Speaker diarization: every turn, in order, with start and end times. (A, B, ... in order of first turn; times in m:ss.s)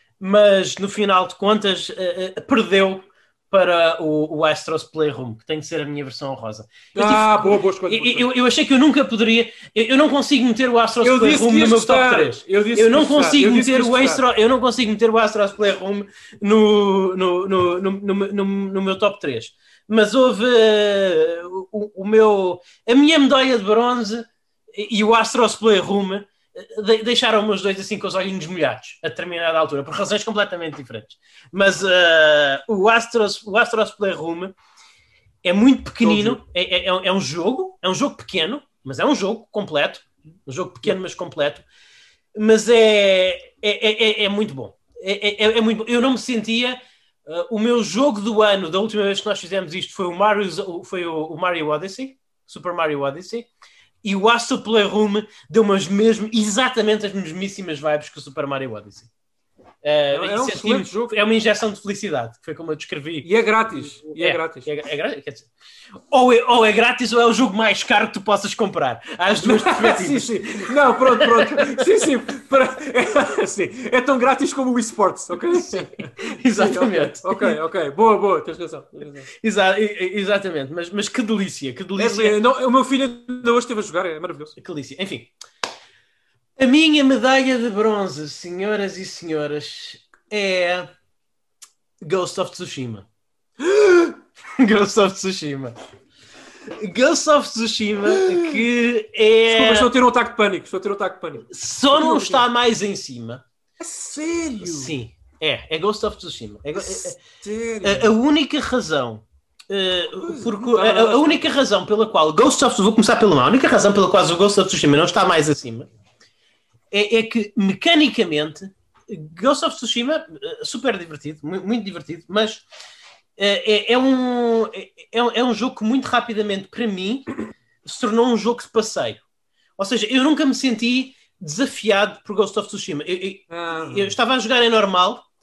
0:00.2-0:34.5 A
0:06.9-0:08.3 B
0:11.0-0:14.2 B
0:35.4-0:41.6 A
0:36.0-0:36.4 B
0:42.3-0:53.5 A
0:54.0-0:59.1 A
0:59.8-1:03.3 A
1:00.1-1:01.1 B
1:03.2-1:04.7 B
1:04.1-1:05.5 A
1:06.1-1:11.9 A
1:09.4-1:19.3 B
1:15.6-1:17.6 A
1:19.4-1:22.4 A
1:22.0-1:24.5 B
1:24.6-1:25.3 A
1:26.6-1:30.9 A
1:32.0-1:33.0 A
1:33.6-1:34.1 B
1:34.5-1:35.7 A
1:36.7-1:39.9 A
1:38.1-1:38.6 B
1:39.5-1:42.4 B
1:41.5-1:43.4 A
1:43.8-1:44.9 B
1:44.6-1:47.2 A
1:46.8-1:48.1 B
1:47.8-1:55.9 A
1:50.2-1:51.5 B
1:56.9-2:02.6 A
2:03.4-2:09.2 A
2:09.8-2:15.2 A
2:13.5-2:14.1 B